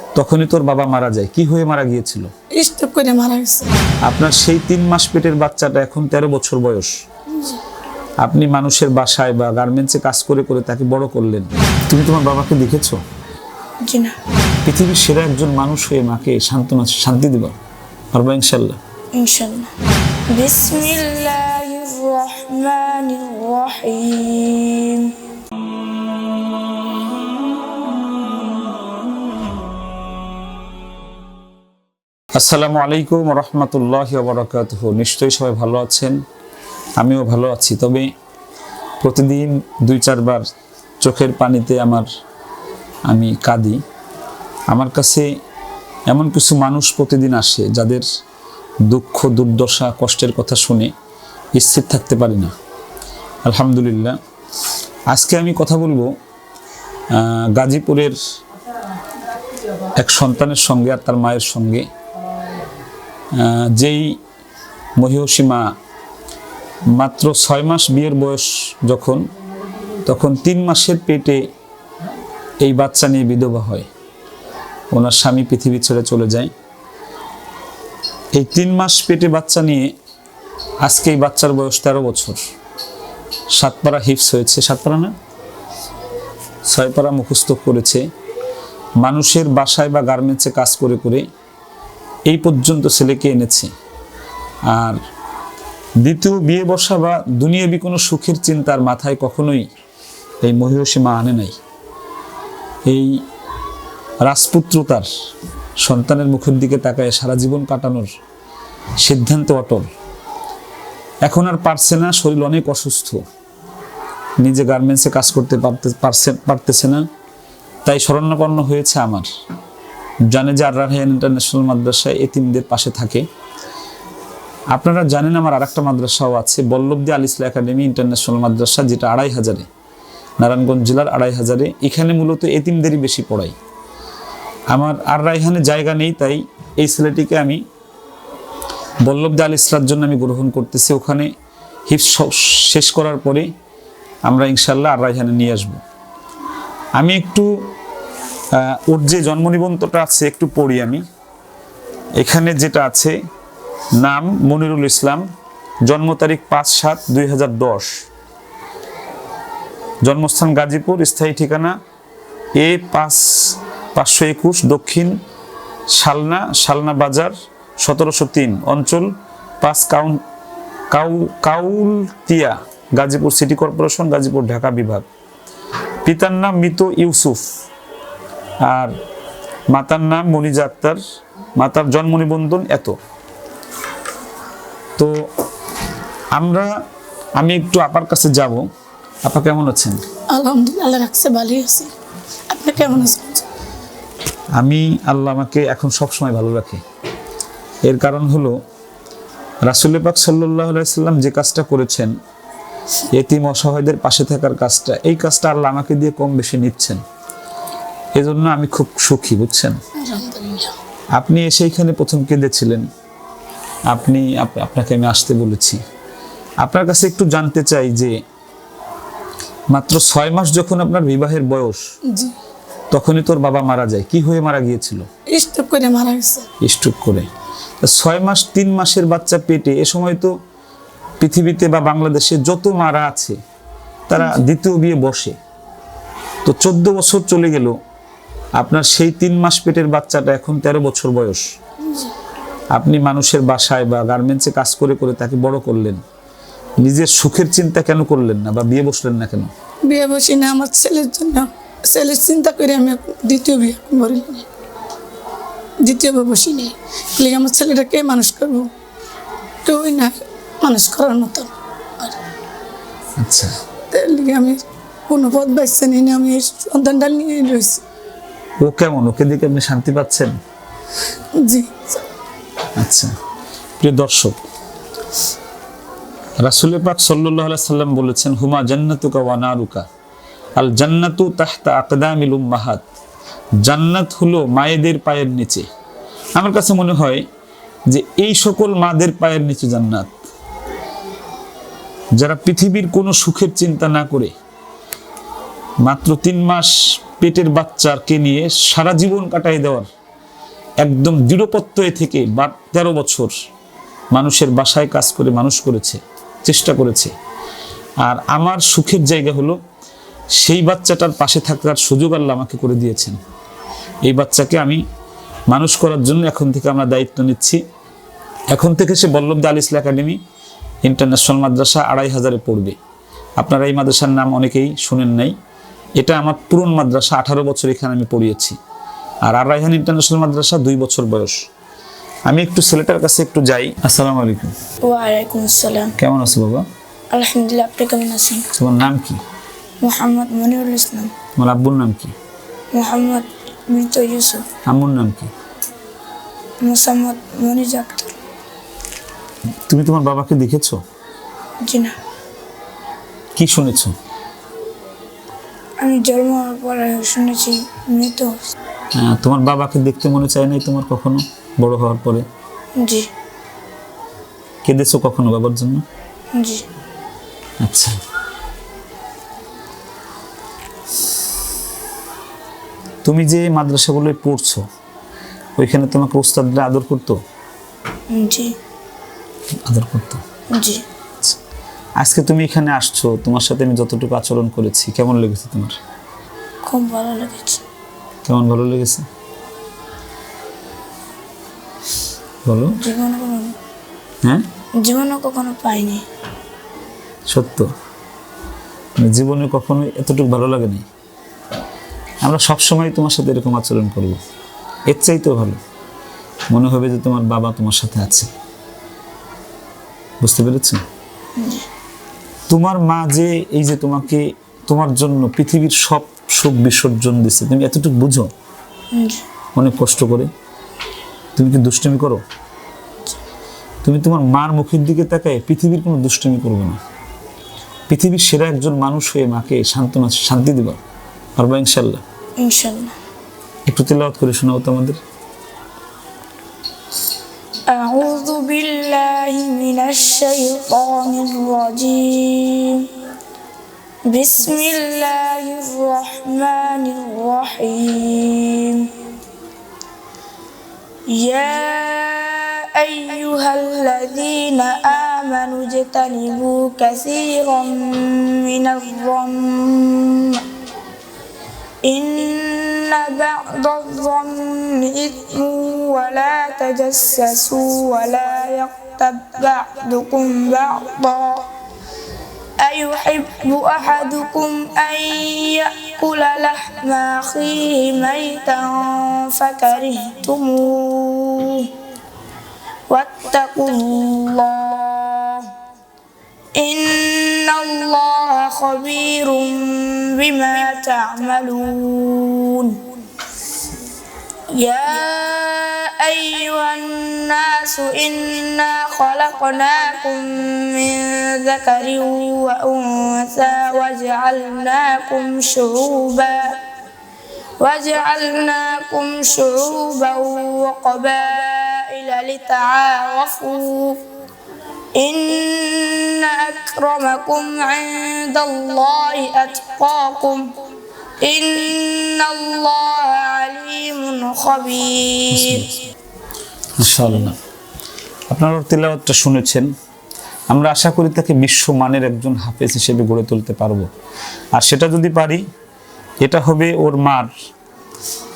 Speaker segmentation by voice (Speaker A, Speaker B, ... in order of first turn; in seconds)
Speaker A: 0.1-2.3, 4.1-6.9, 8.2-13.0, 14.7-17.6, 18.1-18.8, 32.4-36.2, 37.0-38.1, 39.0-40.4, 41.0-42.1, 43.1-43.8, 44.7-45.3, 46.1-48.1, 48.9-50.9, 51.6-52.5, 53.5-54.2, 55.1-56.1, 57.1-58.2, 60.0-61.9, 63.3-64.2, 65.0-65.7, 66.9-69.2, 70.0-71.4, 72.6-73.9, 74.9-76.5, 78.3-79.9, 80.8-82.4, 83.5-85.1, 86.7-88.0, 89.0-91.2, 92.3-93.7, 94.7-95.0, 96.0-99.7, 100.4-101.6, 102.9-103.2, 104.2-105.1, 105.8-108.1, 109.0-109.9, 111.2-113.2, 114.4-117.0, 117.8-119.3, 120.3-123.3, 124.7-129.7, 130.4-133.6, 134.7-137.6, 139.0-141.3, 141.9-143.5, 144.3-145.8, 147.0-147.5, 148.5-151.0, 152.2-153.2, 154.0-155.2, 155.8-158.0, 160.0-161.7, 162.6-165.2, 165.9-169.1, 169.6-170.2, 170.9-175.1, 176.1-177.5, 178.6-178.9, 179.7-181.0, 181.6-183.0, 185.0-185.2, 186.3-186.7, 187.4-188.7, 189.2-190.0, 194.6-196.8, 197.8-198.6, 199.7-202.1, 203.1-207.0, 208.2-209.8, 211.2-212.9, 213.9-215.8, 216.6-218.2, 219.7-221.8, 222.9-225.1, 226.6-227.3, 227.8-230.3, 231.2-233.4, 234.1-235.4, 236.4-237.7, 238.6-241.5, 242.7-246.0, 246.8-249.5, 263.2-263.5, 268.6-270.3, 272.8-273.1, 273.8-274.4, 276.4-279.9, 280.6-282.8, 283.6-285.6, 286.4-287.2, 287.9-290.2, 292.2-294.3, 295.8-299.9, 300.8-303.3, 304.1-307.1, 308.0-309.6, 310.4-313.2, 314.1-314.8, 315.5-317.6, 318.5-320.2, 320.8-322.8, 323.4-325.4, 326.0-328.6, 329.2-331.4, 332.3-334.5, 336.0-336.6, 338.5-339.2, 341.4-342.1, 344.7-345.3, 349.7-350.8, 353.4-353.9, 358.9-362.2, 364.6-365.8, 367.6-368.0, 373.0-374.6, 375.6-377.2, 379.7-380.2, 382.0-385.8, 388.2-389.1, 392.5-392.8, 397.3-397.7, 399.0-400.9, 402.2-404.2, 404.9-405.6, 406.5-408.3, 410.2-410.8, 412.5-418.3, 419.6-420.3, 421.4-422.2, 423.8-426.8, 427.9-430.8, 431.4-432.0, 433.7-435.0, 525.3-525.7, 526.8-527.4, 528.3-529.7, 530.5-533.9, 534.6-535.4, 536.2-537.3
Speaker B: 2.6-3.7, 190.3-191.9, 192.5-193.5, 210.0-210.7, 222.1-222.3, 225.3-226.5, 249.9-254.5, 255.8-258.7, 259.6-262.2, 263.9-267.8, 271.4-272.0
Speaker C: 13.8-14.1, 19.2-19.7, 20.3-25.1, 334.9-335.9, 337.1-338.4, 339.8-341.1, 342.7-344.4, 346.6-348.1, 351.6-351.9, 355.8-358.3, 362.8-363.1, 366.4-366.6, 378.1-378.5, 380.5-380.8, 386.6-387.6, 392.8-393.6, 394.8-396.0, 411.4-411.7, 418.9-419.2, 432.4-432.9, 437.7-442.9, 444.1-448.9, 451.1-460.4, 461.8-471.5, 472.6-481.7, 482.9-485.5, 486.6-492.8, 494.6-506.5, 507.6-514.0, 515.0-520.4, 521.2-525.7